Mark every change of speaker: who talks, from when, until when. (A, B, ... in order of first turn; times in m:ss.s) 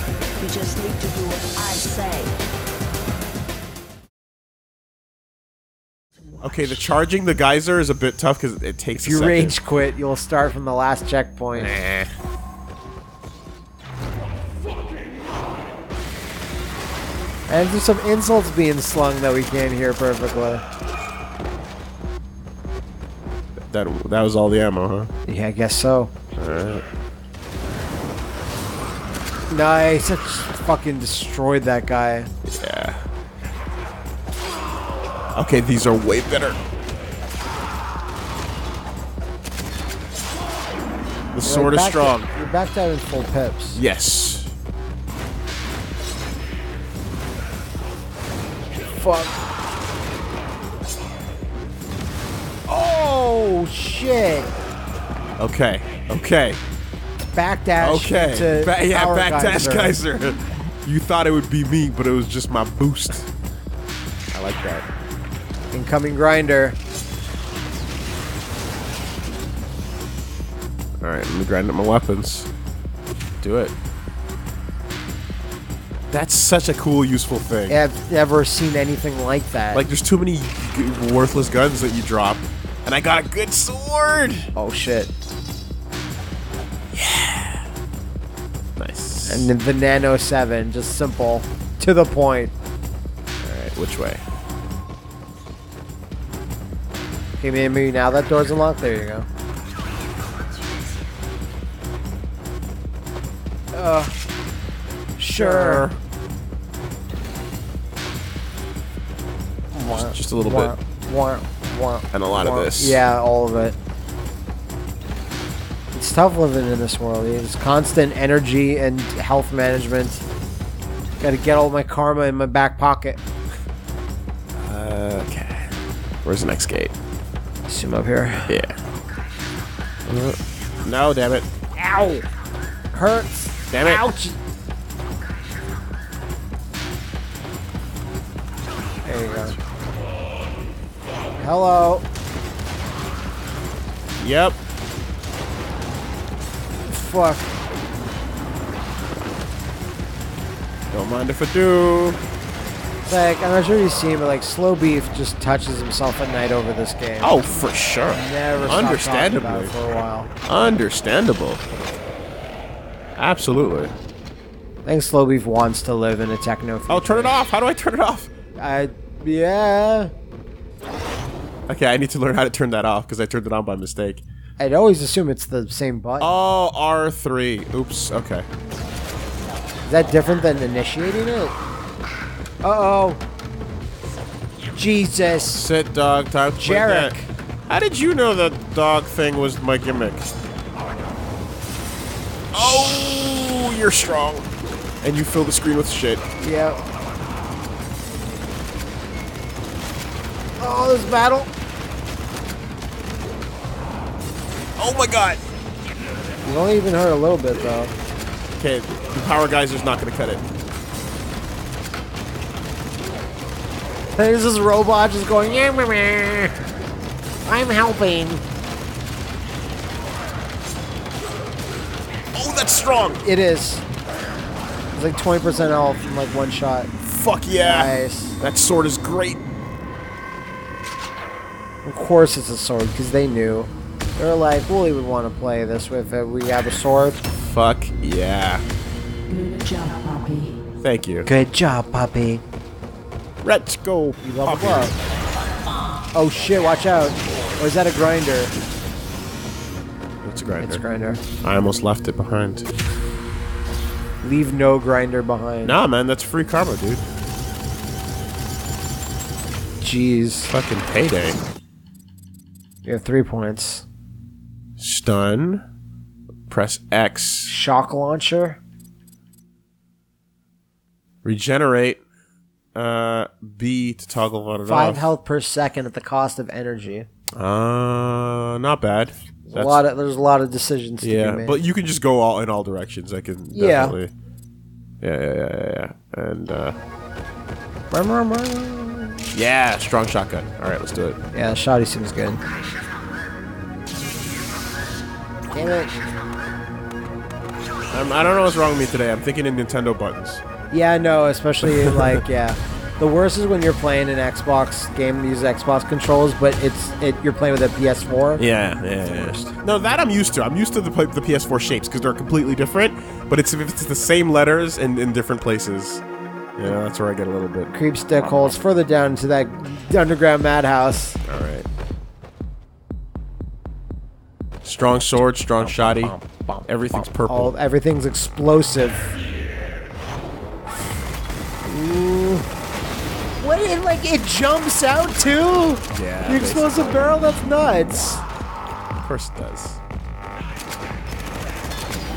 0:00.4-0:02.4 A
0:06.4-0:09.6 B
0:09.0-0:11.8 C
0:11.5-0:12.1 B
0:17.5-0:20.6 C
0:23.7-0:25.1 B
0:25.3-0:26.1 C
0:26.4-0:26.8 B
0:29.5-0:32.3 C
0:32.5-0:33.0 B
0:35.3-0:36.6 B
0:41.3-0:42.3 B
0:41.4-0:43.8 C
0:43.8-0:44.5 B
0:48.9-0:49.4 C
0:52.7-0:54.5 C
0:55.4-0:56.6 B
0:57.2-1:00.0 C
0:57.8-1:03.3 B
1:04.3-1:04.9 B
1:05.7-1:06.8 C
1:11.0-1:12.5 B
1:13.4-1:13.7 B
1:16.1-1:17.8 B
1:17.7-1:19.8 C
1:19.7-1:24.5 B
1:24.6-1:25.1 C
1:26.9-1:27.7 B
1:28.8-1:29.5 B
1:29.3-1:32.5 C
1:33.4-1:34.2 B
1:37.4-1:39.3 C
1:43.7-1:44.2 C
1:45.2-1:45.9 C
1:45.3-1:46.0 B
1:49.7-1:53.8 C
1:49.9-1:50.7 B
1:52.1-1:53.0 B
1:55.9-2:00.2 C
2:01.2-2:03.2 C
2:04.6-2:07.0 B
2:07.7-2:08.6 C
2:08.5-2:08.8 B
2:10.1-2:11.5 B
2:11.8-2:12.2 C
2:12.9-2:14.4 C
2:13.7-2:14.0 B
2:19.0-2:19.6 C
2:21.4-2:22.1 C
2:24.2-2:24.6 B
2:26.9-2:27.5 C
2:30.9-2:32.2 B
2:33.0-2:37.5 C
2:37.2-2:39.7 B
2:38.1-2:40.3 C
2:40.5-2:41.6 B
2:43.2-2:43.9 B
2:44.8-2:47.4 C
2:46.9-2:48.3 B
2:48.6-2:50.1 C
2:51.7-2:54.2 B
2:54.6-2:56.3 C
2:56.2-2:58.5 B
2:59.9-3:01.6 C
3:02.6-3:03.2 C
3:04.8-3:05.6 C
3:05.3-3:07.1 B
3:06.6-3:07.3 C
3:07.7-3:10.3 B
3:12.5-3:14.5 B
3:12.6-3:13.7 C
3:15.0-3:16.2 B
3:16.4-3:16.8 C
3:20.6-3:21.5 C
3:24.8-3:25.4 B
3:26.4-3:27.9 C
3:28.6-3:30.4 B
3:34.2-3:36.6 C
3:37.4-3:38.4 C
3:42.3-3:43.2 B
3:43.2-3:43.8 C
3:45.0-3:46.9 C
3:47.0-3:49.5 B
3:47.6-3:48.4 C
3:51.8-3:57.2 C
3:57.3-3:58.6 B
3:59.3-4:00.6 A
4:00.8-4:01.3 B
4:01.3-4:02.4 C
4:03.4-4:05.0 B
4:04.2-4:05.0 C
4:06.1-4:08.6 C
4:10.2-4:10.8 B
4:10.6-4:11.2 C
4:11.4-4:12.7 B
4:14.2-4:15.8 C
4:15.6-4:17.0 B
4:19.8-4:20.5 C
4:20.5-4:21.4 B
4:22.8-4:23.8 C
4:24.8-4:25.6 B
4:26.5-4:27.5 B
4:27.5-4:28.6 C
4:31.2-4:32.0 B
4:32.8-4:35.1 B
4:34.7-4:37.1 C
4:37.4-4:39.8 B
4:39.5-4:41.6 C
4:41.0-4:44.1 B
4:43.5-4:44.0 C
4:45.0-4:46.8 B
4:47.9-4:49.3 C
4:49.3-4:51.2 B
4:51.3-4:52.4 C
4:55.5-4:56.0 C
4:57.9-5:00.4 B
5:00.7-5:08.4 C
5:01.6-5:02.2 B
5:08.4-5:16.0 B
5:16.6-5:18.6 B
5:17.7-5:21.2 C
5:21.2-5:21.7 B
5:24.6-5:26.2 B
5:25.6-5:29.1 C
5:26.7-5:27.5 B
5:31.6-5:32.5 C
5:33.4-5:38.2 C
5:35.9-5:37.1 B
5:39.0-5:39.8 B